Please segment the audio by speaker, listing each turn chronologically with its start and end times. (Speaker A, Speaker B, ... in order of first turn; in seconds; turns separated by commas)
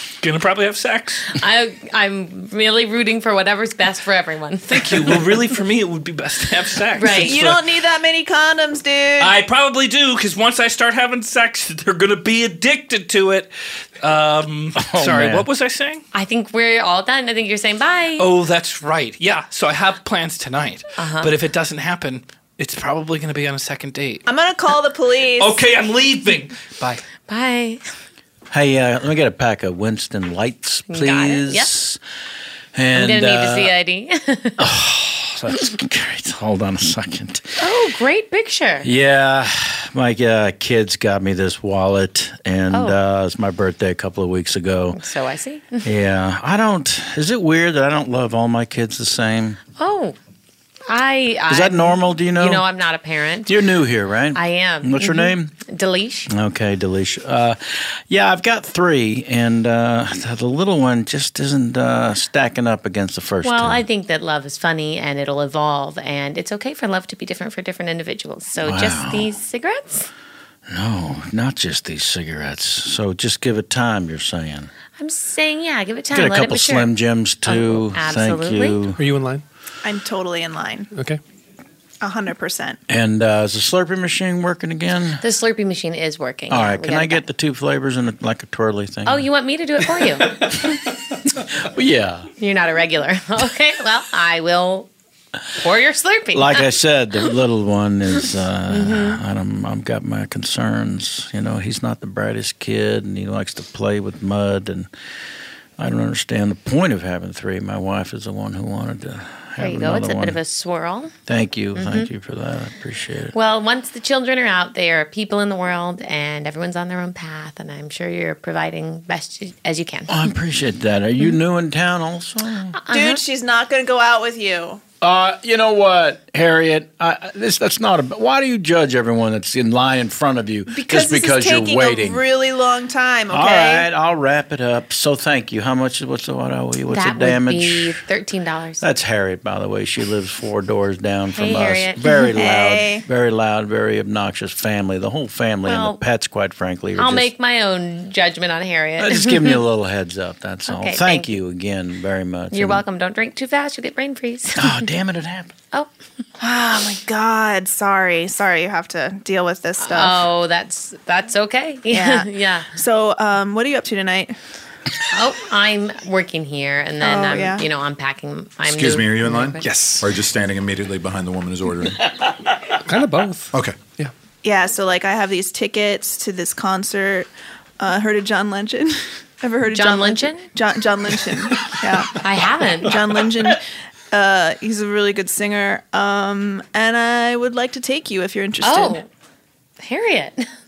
Speaker A: 0.2-1.3, Speaker B: 1.4-5.2, Speaker A: 4.7-7.7, Speaker B: 7.0-7.3, Speaker C: 7.1-9.3, Speaker A: 9.2-13.5, Speaker A: 14.0-16.1, Speaker D: 14.8-15.4, Speaker B: 16.1-18.3, Speaker A: 18.2-24.2, Speaker B: 21.0-21.4, Speaker C: 24.3-25.6, Speaker A: 25.4-27.0, Speaker B: 27.2-27.8, Speaker D: 28.5-32.0, Speaker B: 30.9-31.7, Speaker D: 32.8-33.8, Speaker B: 32.9-34.6, Speaker D: 34.6-37.8, Speaker B: 37.6-38.9, Speaker D: 38.8-45.0, Speaker B: 42.7-43.0, Speaker B: 45.0-45.9, Speaker D: 45.8-49.6, Speaker B: 49.8-50.2, Speaker B: 50.9-53.5, Speaker D: 51.5-52.7, Speaker D: 53.5-55.5, Speaker B: 54.3-56.3, Speaker D: 56.3-63.9, Speaker B: 63.4-70.1, Speaker D: 68.6-69.3, Speaker D: 70.7-74.7, Speaker B: 75.0-76.9, Speaker D: 76.1-79.0, Speaker B: 77.4-78.8, Speaker E: 79.0-79.4, Speaker C: 79.8-80.9, Speaker E: 80.9-81.2, Speaker C: 82.0-82.8, Speaker D: 82.9-85.2, Speaker B: 85.2-87.2, Speaker D: 86.5-89.3, Speaker B: 89.0-90.4, Speaker D: 90.4-90.8, Speaker D: 91.5-92.3, Speaker B: 92.4-94.9, Speaker B: 95.6-96.7, Speaker D: 96.3-104.9, Speaker B: 98.7-99.2, Speaker D: 105.8-110.4, Speaker B: 109.6-111.1, Speaker D: 111.3-113.4, Speaker B: 111.8-112.1, Speaker B: 113.3-120.3, Speaker D: 120.1-122.8, Speaker B: 122.8-123.2, Speaker C: 122.9-124.8, Speaker D: 125.0-132.2, Speaker C: 130.7-133.9, Speaker D: 133.3-138.0, Speaker B: 136.9-138.8, Speaker D: 138.8-147.3, Speaker B: 141.3-142.3, Speaker C: 142.4-143.1, Speaker B: 145.6-146.0, Speaker B: 147.0-149.6, Speaker D: 149.0-152.8, Speaker B: 150.7-151.3, Speaker B: 152.5-154.9, Speaker D: 154.6-155.6, Speaker C: 156.4-160.3, Speaker B: 159.8-162.7, Speaker C: 161.9-164.3, Speaker B: 165.1-169.6, Speaker C: 167.0-167.6, Speaker F: 168.6-172.0, Speaker E: 169.6-170.1, Speaker E: 172.9-174.1, Speaker F: 173.5-173.8, Speaker C: 174.4-177.3, Speaker C: 177.8-182.2, Speaker B: 179.7-180.5, Speaker B: 182.2-183.0, Speaker C: 182.8-183.6, Speaker C: 184.1-189.0, Speaker B: 188.6-189.1, Speaker B: 189.8-190.5